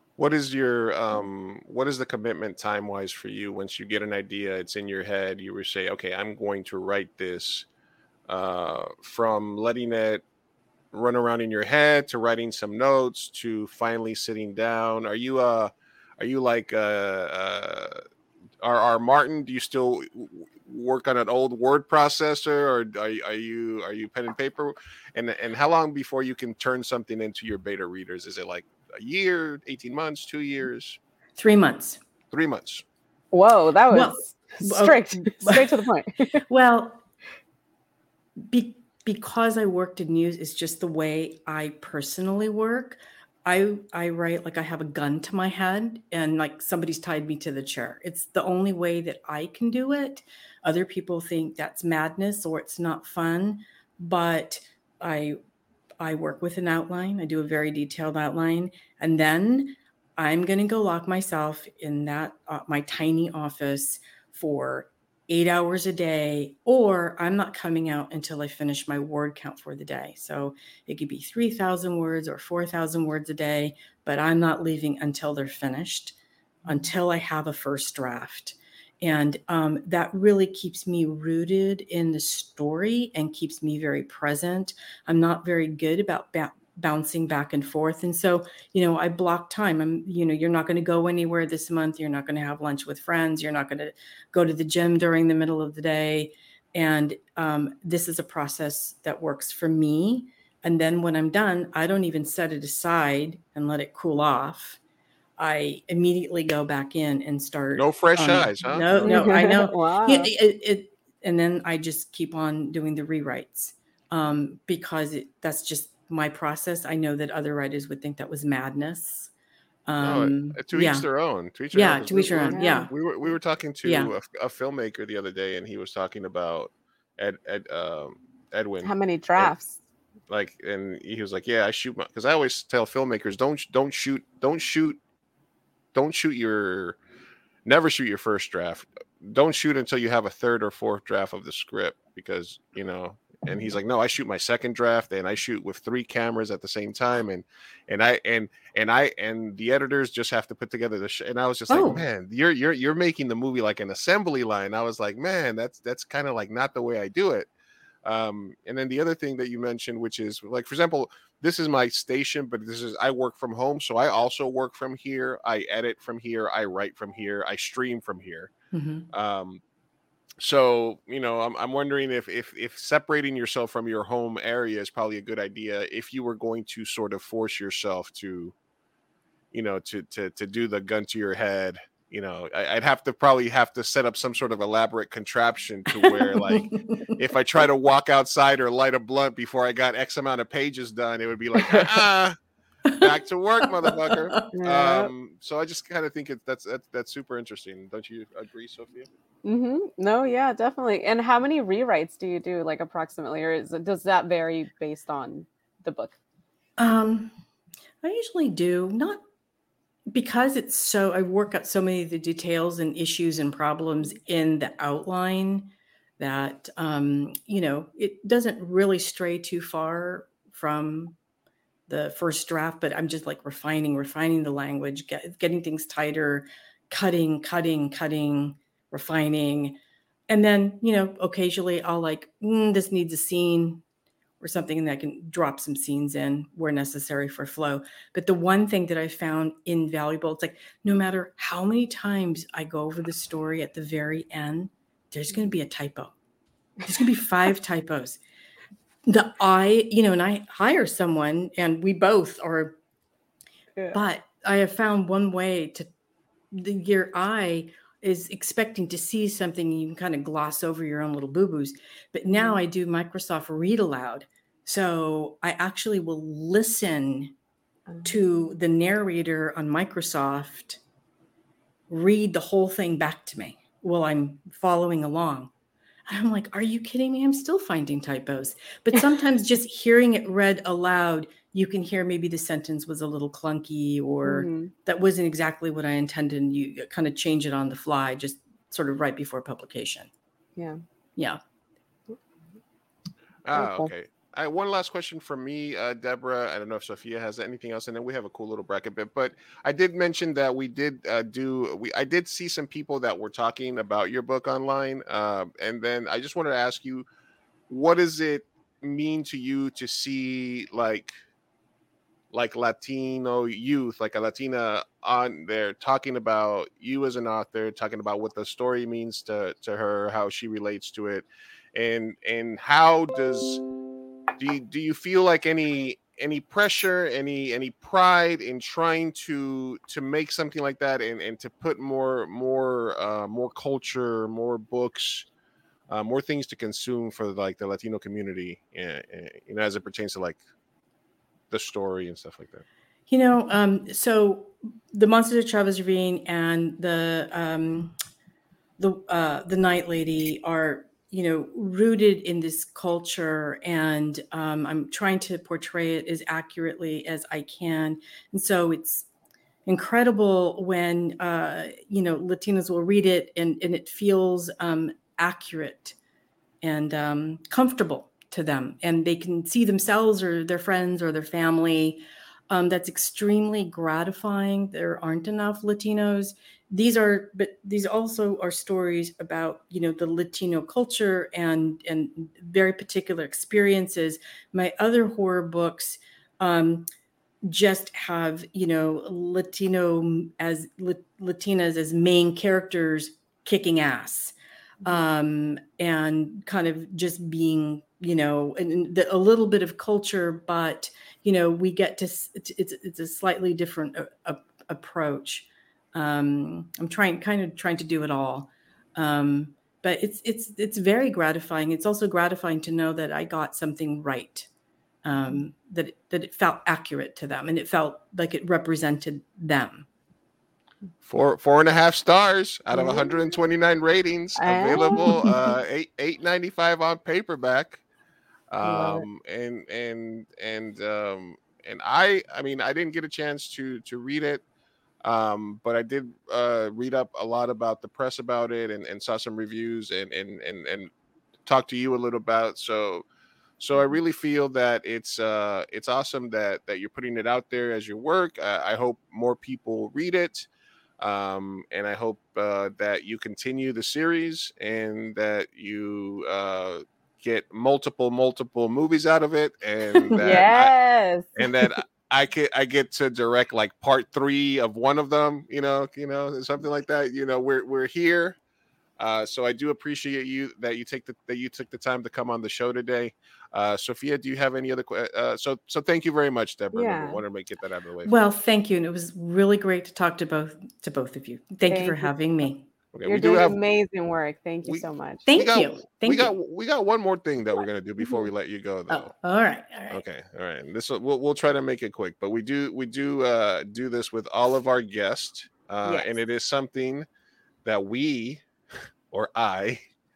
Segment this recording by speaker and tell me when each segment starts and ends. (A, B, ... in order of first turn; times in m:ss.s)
0:00.2-0:07.6 A
0:08.3-0:10.2 A
0:10.9-0:18.0 A
0:18.6-0:31.0 A
0:31.4-0:32.0 B
0:32.3-0:32.8 A
0:33.3-0:36.4 C
0:33.9-0:35.8 B
0:36.5-0:37.0 B
0:38.4-0:55.4 B
0:56.0-1:44.8 B
1:45.4-1:59.3 B
1:47.7-1:49.2 A
1:49.0-1:50.3 C
1:59.9-2:01.0 B
2:00.0-2:09.5 A
2:01.7-2:02.9 B
2:02.5-2:02.9 C
2:03.8-2:04.1 B
2:08.8-2:09.8 C
2:10.3-2:15.0 A
2:15.9-2:17.0 A
2:17.6-2:37.5 A
2:31.7-2:32.0 B
2:38.0-2:48.5 A
2:48.7-2:49.1 B
2:49.1-2:49.6 A
2:50.4-2:58.5 A
2:59.5-3:12.4 A
3:06.0-3:07.1 B
3:13.0-3:19.1 A
3:13.6-3:14.5 B
3:14.5-3:15.1 C
3:19.4-3:26.1 C
3:26.8-3:27.3 B
3:28.0-3:29.2 B
3:30.1-3:41.2 B
3:41.9-3:53.8 B
3:54.4-4:06.1 B
4:06.8-4:08.2 B
4:09.0-4:12.8 B
4:13.9-4:15.9 B
4:16.5-4:27.3 B
4:22.3-4:22.6 C
4:27.9-4:28.2 C
4:28.0-4:30.8 B
4:31.9-4:35.5 B
4:36.1-4:50.1 B
4:44.2-4:44.7 C
4:53.4-5:07.0 A
4:53.5-4:53.9 C
5:07.7-5:11.2 A
5:12.3-5:23.6 A
5:24.4-5:35.2 A
5:35.9-5:40.4 A
5:41.5-5:42.6 A
5:43.1-5:47.9 B
5:48.8-5:59.1 B
5:59.6-6:06.0 B
6:06.6-6:26.9 B
6:27.4-6:54.5 B
6:55.0-6:59.9 B
7:01.0-7:07.8 A
7:02.7-7:03.1 C
7:04.4-7:05.4 C
7:08.5-7:14.4 A
7:08.6-7:09.0 C
7:15.0-7:20.9 A
7:21.4-7:23.0 A
7:23.6-7:30.5 A
7:31.0-7:40.7 A
7:40.1-7:40.4 B
7:40.2-7:41.4 C
7:41.4-7:48.4 A
7:49.0-7:58.1 A
7:56.7-7:57.2 C
7:58.0-8:02.6 B
8:01.7-8:02.1 C
8:02.9-8:03.6 A
8:03.0-8:05.2 C
8:04.6-8:09.1 A
8:05.3-8:06.3 B
8:08.9-8:10.0 B
8:09.9-8:17.1 A
8:15.8-8:16.1 C
8:17.6-8:18.4 A
8:19.1-8:19.9 A